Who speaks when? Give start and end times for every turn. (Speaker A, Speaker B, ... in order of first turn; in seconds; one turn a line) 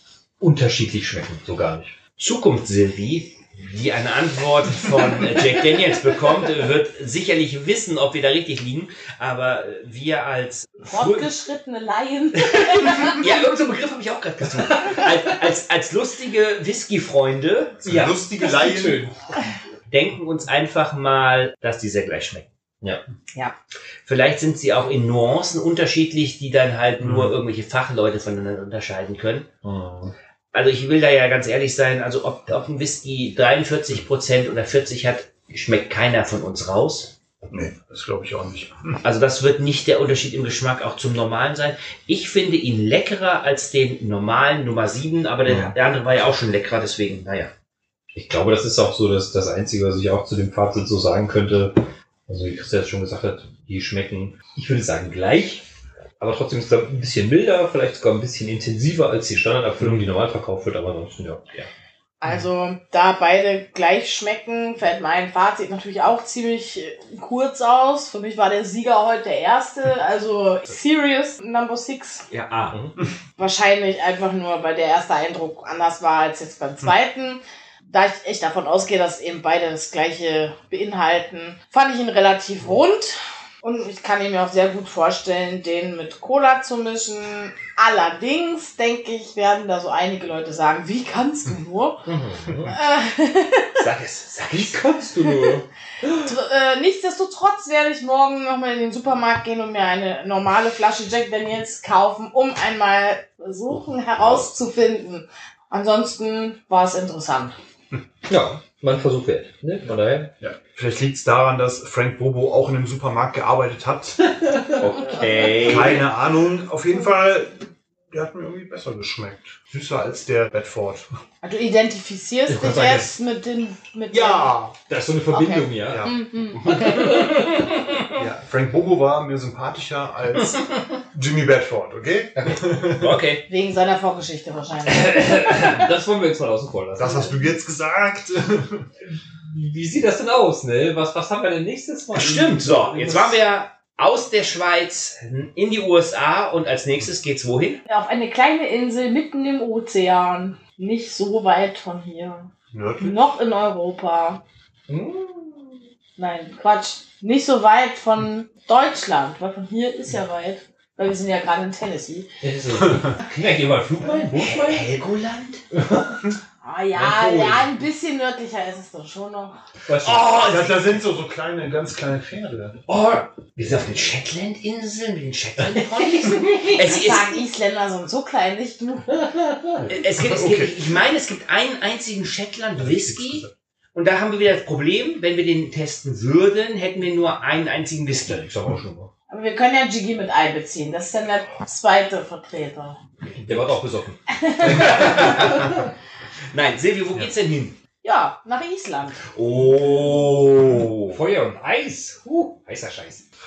Speaker A: 0.4-2.0
Speaker B: 2.2-11.3
Speaker C: 10.8-13.2
Speaker B: 12.7-17.8
Speaker A: 14.6-15.2
Speaker D: 17.8-19.1
Speaker A: 17.8-19.1
Speaker B: 19.9-22.5
Speaker B: 24.0-29.5
Speaker D: 27.0-27.4
Speaker A: 29.6-30.1
Speaker B: 30.5-37.1
Speaker D: 37.5-39.0
Speaker B: 39.0-47.5
Speaker D: 45.4-45.7
Speaker A: 48.1-55.6
Speaker A: 56.2-61.7
Speaker D: 59.8-60.0
Speaker C: 62.2-72.2
Speaker B: 72.3-72.8
Speaker C: 73.4-92.1
Speaker A: 92.0-92.8
Speaker C: 92.6-93.8
Speaker B: 93.8-94.8
Speaker A: 94.4-96.1
Speaker C: 96.1-107.5
Speaker A: 108.3-110.3
Speaker D: 110.4-114.3
Speaker B: 114.7-116.1
Speaker D: 115.6-121.0
Speaker C: 121.4-124.6
Speaker A: 122.5-123.1
Speaker D: 124.1-124.7
Speaker A: 124.9-127.6
Speaker C: 125.3-127.1
Speaker D: 125.8-126.3
Speaker B: 126.6-128.1
Speaker D: 128.1-133.2
Speaker B: 132.5-133.4
Speaker C: 133.5-135.8
Speaker A: 134.8-137.4
Speaker D: 137.0-138.9
Speaker A: 139.4-143.4
Speaker B: 142.1-147.8
Speaker C: 147.9-154.4
Speaker D: 152.7-153.2
Speaker A: 154.9-155.8
Speaker C: 156.2-162.3
Speaker A: 162.4-163.2
Speaker B: 163.2-165.6
Speaker D: 164.0-164.8
Speaker A: 165.7-166.3
Speaker C: 166.6-169.6
Speaker A: 166.9-167.7
Speaker A: 169.9-170.4
Speaker B: 170.0-170.9
Speaker D: 170.4-172.8
Speaker B: 172.9-177.4
Speaker C: 175.8-179.2
Speaker A: 179.1-179.8
Speaker D: 179.8-180.7
Speaker B: 179.9-188.4
Speaker D: 182.8-183.5
Speaker A: 188.3-189.1
Speaker C: 189.3-193.0
Speaker A: 193.3-195.8
Speaker C: 194.3-195.0
Speaker B: 194.6-195.8
Speaker B: 196.5-197.8
Speaker C: 198.0-199.2
Speaker B: 199.3-201.2
Speaker A: 201.1-203.2